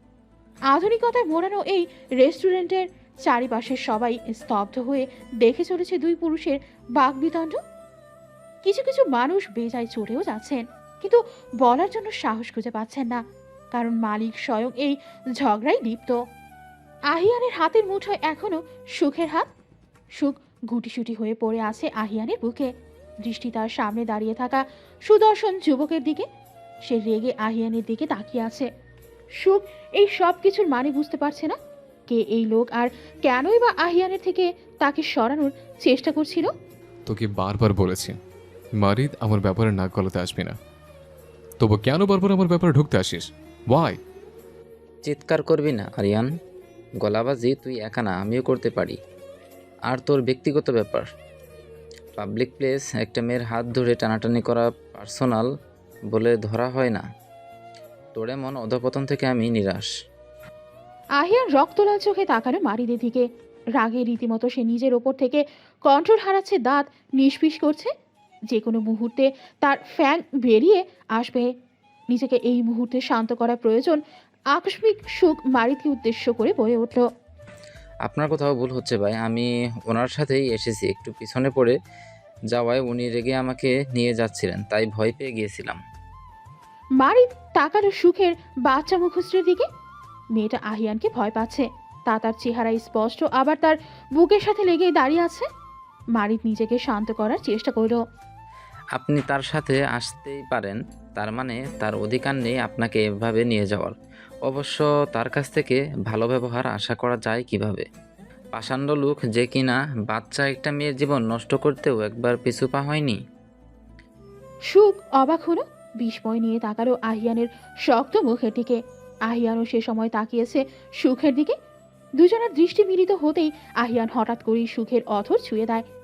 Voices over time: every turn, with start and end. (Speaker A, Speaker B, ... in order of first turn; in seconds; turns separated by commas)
Speaker A: 0.7-7.6, Speaker A: 8.6-13.2, Speaker A: 13.7-16.2, Speaker A: 17.1-19.5, Speaker A: 20.2-22.7, Speaker A: 23.2-26.3, Speaker A: 26.9-28.7, Speaker A: 29.4-31.6, Speaker A: 32.1-36.5, Speaker B: 37.1-38.2, Speaker B: 38.8-40.6, Speaker B: 41.6-44.0, Speaker C: 45.1-46.3, Speaker C: 47.0-49.0, Speaker C: 49.9-51.1, Speaker C: 52.2-55.5, Speaker C: 56.1-57.0, Speaker C: 58.1-59.9, Speaker A: 61.2-63.3, Speaker A: 63.8-67.9, Speaker A: 68.5-71.5, Speaker A: 72.1-74.0, Speaker A: 74.5-77.0, Speaker C: 78.1-81.8, Speaker C: 82.5-85.8, Speaker A: 87.0-89.7, Speaker A: 90.4-95.5, Speaker A: 96.2-98.0, Speaker C: 99.0-103.9, Speaker C: 104.5-107.8, Speaker C: 108.5-113.2, Speaker A: 114.7-121.6, Speaker A: 122.2-125.9